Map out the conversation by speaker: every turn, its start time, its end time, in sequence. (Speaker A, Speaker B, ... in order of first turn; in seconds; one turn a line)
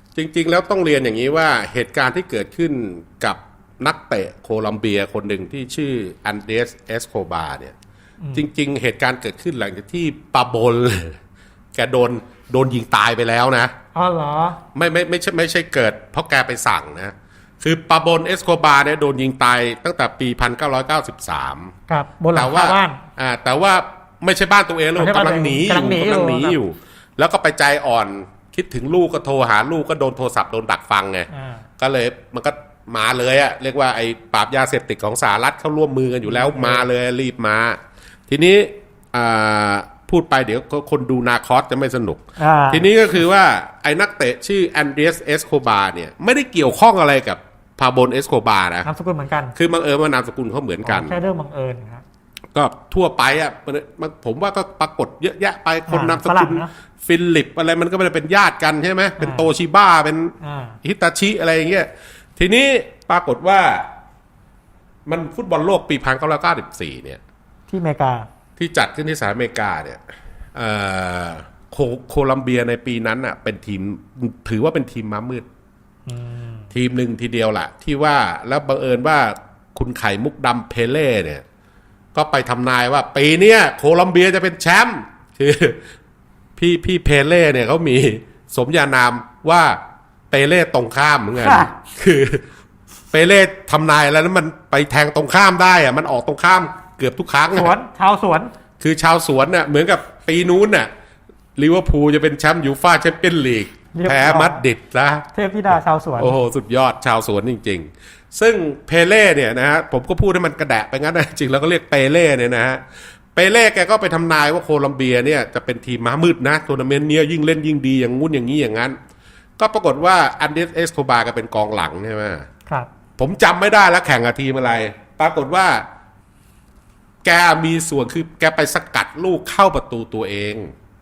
Speaker A: 0.1-7.8
Speaker B: 8.2-8.5
Speaker A: 8.3-11.2
Speaker A: 11.8-13.7
Speaker B: 13.9-14.6
Speaker A: 14.7-21.7
Speaker B: 21.9-23.0
Speaker A: 22.3-31.3
Speaker B: 25.0-26.6
Speaker B: 31.3-31.6
Speaker A: 31.8-48.9
Speaker B: 36.2-36.9
Speaker B: 42.4-42.9
Speaker B: 48.8-49.5
Speaker A: 49.6-51.2
Speaker B: 50.8-52.0
Speaker A: 52.5-63.9
Speaker B: 55.9-56.7
Speaker B: 59.2-59.5
Speaker B: 60.4-60.8
Speaker A: 65.1-67.2
Speaker B: 67.7-68.3
Speaker A: 68.6-70.0
Speaker A: 70.5-75.5
Speaker B: 76.1-76.7
Speaker A: 76.7-81.4
Speaker A: 82.1-85.8
Speaker A: 86.6-89.8
Speaker A: 90.3-92.5
Speaker B: 91.4-91.7
Speaker A: 93.1-97.7
Speaker B: 97.5-98.5
Speaker A: 98.8-100.9
Speaker A: 101.6-105.2
Speaker B: 103.9-104.6
Speaker B: 105.3-106.3
Speaker A: 106.2-112.8
Speaker A: 113.3-119.0
Speaker A: 119.6-122.5
Speaker A: 123.2-125.8
Speaker A: 127.2-130.7